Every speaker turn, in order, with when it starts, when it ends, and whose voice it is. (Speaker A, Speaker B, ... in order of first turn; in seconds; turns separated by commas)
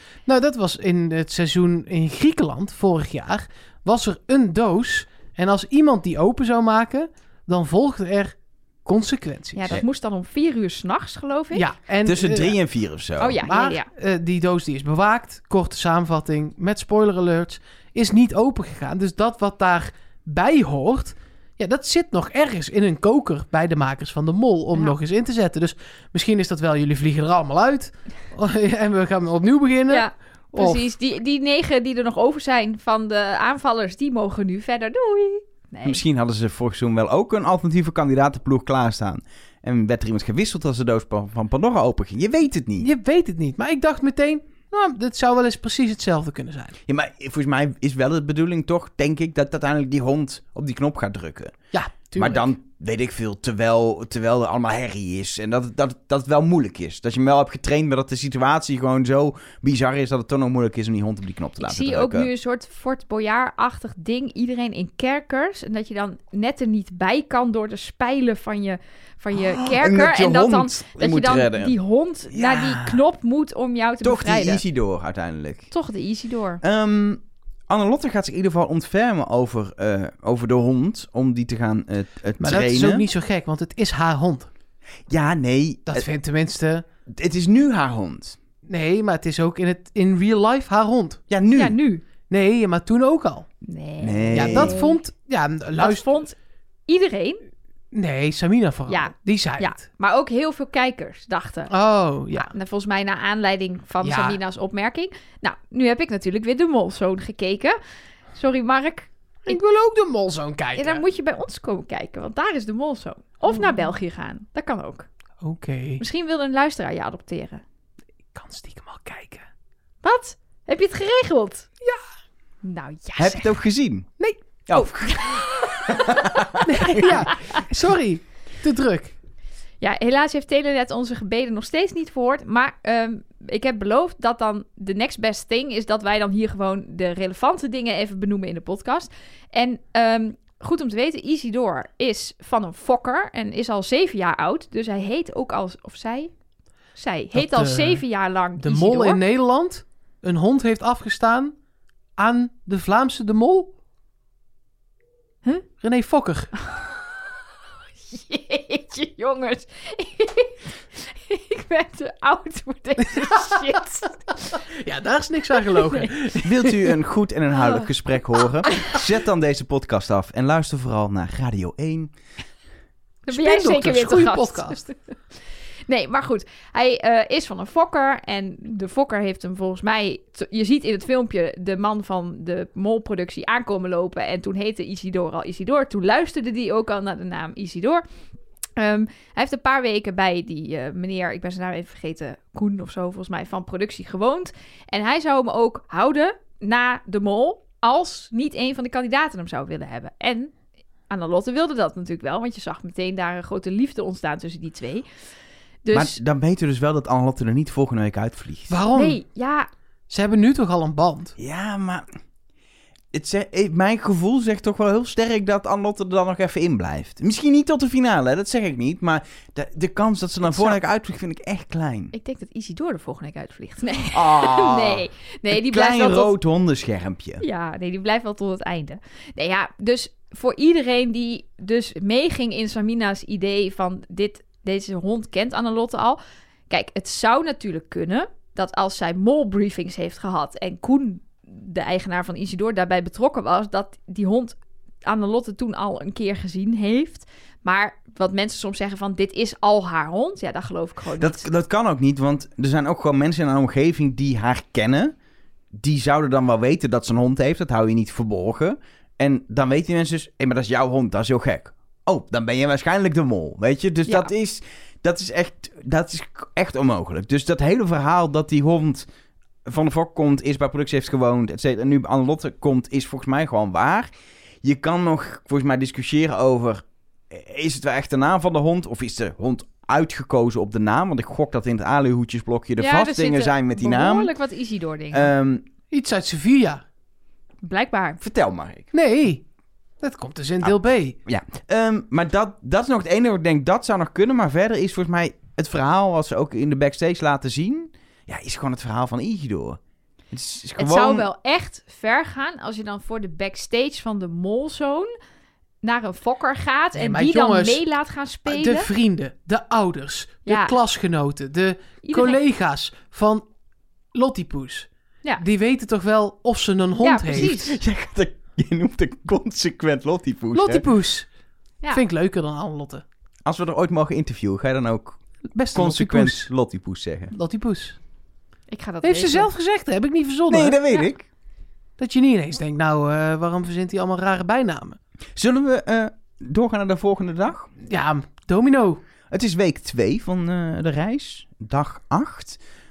Speaker A: 0.3-9.8, Speaker B: 9.6-11.7, Speaker A: 11.5-12.6, Speaker C: 12.0-13.4, Speaker B: 13.2-13.8, Speaker A: 13.4-30.8, Speaker B: 29.9-36.0, Speaker C: 35.8-42.9, Speaker A: 42.8-46.8, Speaker C: 46.9-51.5, Speaker A: 51.7-52.5, Speaker C: 52.2-62.3, Speaker B: 61.6-74.6, Speaker C: 69.3-71.8, Speaker C: 72.3-73.0, Speaker C: 74.0-75.7, Speaker B: 75.7-76.6, Speaker C: 76.6-83.0, Speaker A: 82.4-84.5, Speaker C: 85.1-86.0, Speaker A: 85.9-86.8, Speaker C: 87.1-88.4, Speaker A: 88.6-91.2, Speaker C: 91.3-91.8, Speaker B: 91.5-92.0, Speaker A: 92.3-93.5, Speaker B: 93.6-95.0, Speaker C: 94.0-94.7, Speaker A: 94.3-96.1, Speaker B: 95.8-96.3, Speaker B: 96.9-97.4, Speaker A: 97.9-99.8, Speaker B: 98.9-101.7, Speaker A: 101.7-102.5, Speaker B: 102.3-107.8, Speaker A: 104.0-104.4, Speaker B: 108.3-109.6, Speaker A: 109.5-111.0, Speaker B: 110.8-115.1, Speaker A: 113.5-113.8, Speaker A: 115.4-116.0, Speaker B: 116.0-117.6, Speaker A: 118.3-119.4, Speaker B: 120.0-121.7, Speaker B: 122.6-123.5, Speaker C: 123.2-124.1, Speaker C: 124.7-127.3, Speaker B: 124.7-127.6, Speaker A: 126.6-129.2, Speaker B: 129.8-146.3, Speaker B: 146.9-149.2, Speaker A: 147.3-148.0, Speaker A: 148.6-151.5, Speaker A: 152.2-153.7, Speaker A: 155.8-156.5, Speaker B: 158.0-164.6, Speaker A: 163.0-163.8, Speaker A: 164.5-166.8, Speaker B: 165.6-166.1, Speaker C: 166.4-172.1, Speaker B: 167.5-167.9, Speaker A: 173.3-174.8, Speaker B: 173.3-175.0, Speaker B: 175.9-188.0, Speaker B: 188.8-200.5, Speaker B: 201.1-205.1, Speaker B: 205.8-206.2, Speaker C: 205.9-208.8, Speaker A: 208.7-209.2, Speaker B: 208.9-209.7, Speaker A: 210.1-211.3, Speaker C: 211.4-212.1, Speaker C: 213.1-222.1, Speaker B: 220.5-220.8, Speaker B: 222.1-226.3, Speaker C: 224.1-227.4, Speaker B: 227.4-251.4, Speaker C: 251.2-255.1, Speaker C: 255.8-269.1, Speaker C: 269.6-274.1, Speaker C: 274.6-284.3, Speaker B: 282.8-285.3, Speaker C: 285.1-285.6, Speaker A: 285.9-286.8, Speaker B: 287.6-288.2, Speaker C: 288.2-288.9, Speaker A: 288.9-289.4, Speaker A: 290.0-291.2, Speaker C: 291.2-299.8, Speaker C: 300.3-301.2, Speaker B: 300.8-305.1, Speaker B: 305.8-308.9, Speaker A: 306.9-307.8, Speaker A: 308.4-313.4, Speaker B: 310.4-310.8, Speaker B: 312.0-312.4, Speaker A: 314.1-317.7, Speaker B: 317.0-317.8, Speaker C: 317.3-320.8, Speaker A: 320.5-321.3, Speaker A: 321.9-323.0, Speaker C: 323.4-325.2, Speaker A: 325.5-326.5, Speaker C: 325.7-327.3, Speaker A: 327.3-328.0, Speaker B: 328.7-329.5, Speaker A: 329.0-330.8, Speaker C: 330.5-331.2, Speaker A: 332.0-335.0, Speaker C: 335.4-337.7, Speaker A: 337.8-339.0, Speaker C: 339.3-342.6